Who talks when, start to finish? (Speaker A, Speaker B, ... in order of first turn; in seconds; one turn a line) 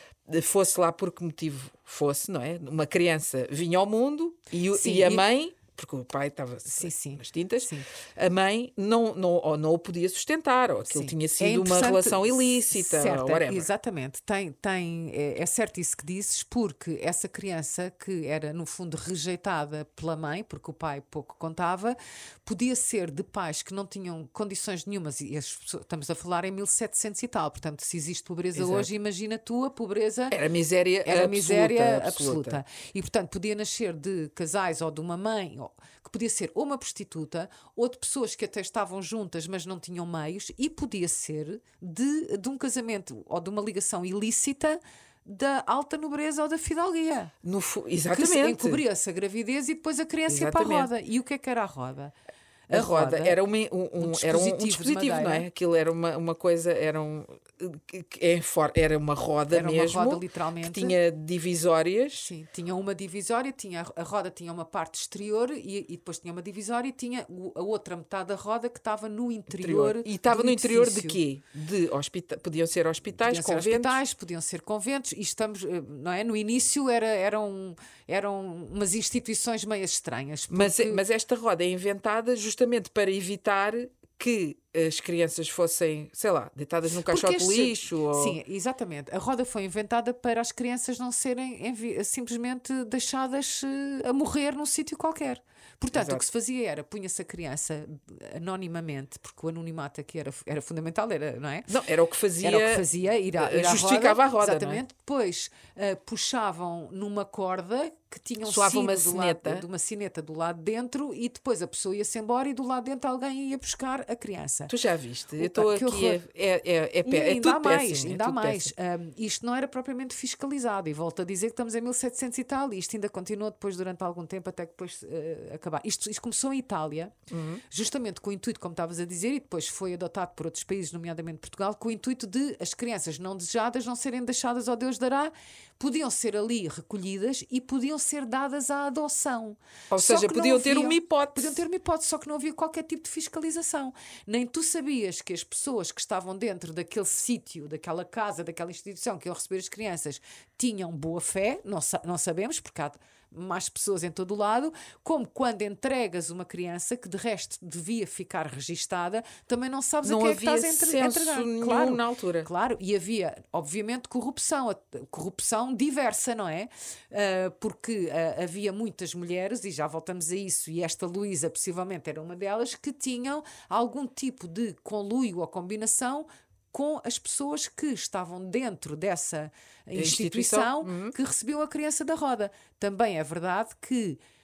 Speaker A: 0.3-13.7
Speaker B: 4.7-5.2
Speaker B: 6.7-7.9
Speaker B: 10.8-30.4
Speaker A: 28.5-28.9
Speaker A: 30.3-32.6
Speaker B: 31.0-47.3
Speaker A: 47.4-48.8
Speaker B: 48.1-52.1
Speaker A: 50.3-50.9
Speaker B: 52.7-53.4
Speaker A: 52.7-62.3
Speaker B: 54.0-55.5
Speaker B: 59.5-61.0
Speaker B: 62.2-71.2
Speaker A: 69.5-74.0
Speaker B: 73.2-81.0
Speaker A: 80.5-88.4
Speaker B: 87.0-101.7
Speaker A: 95.9-96.2
Speaker A: 101.7-104.8
Speaker B: 102.4-114.7
Speaker A: 108.4-109.6
Speaker A: 114.7-118.7
Speaker B: 115.4-116.2
Speaker B: 117.0-127.1
Speaker A: 127.3-127.6
Speaker B: 127.7-184.2
Speaker A: 139.9-141.6
Speaker A: 160.0-162.5
Speaker A: 179.9-181.1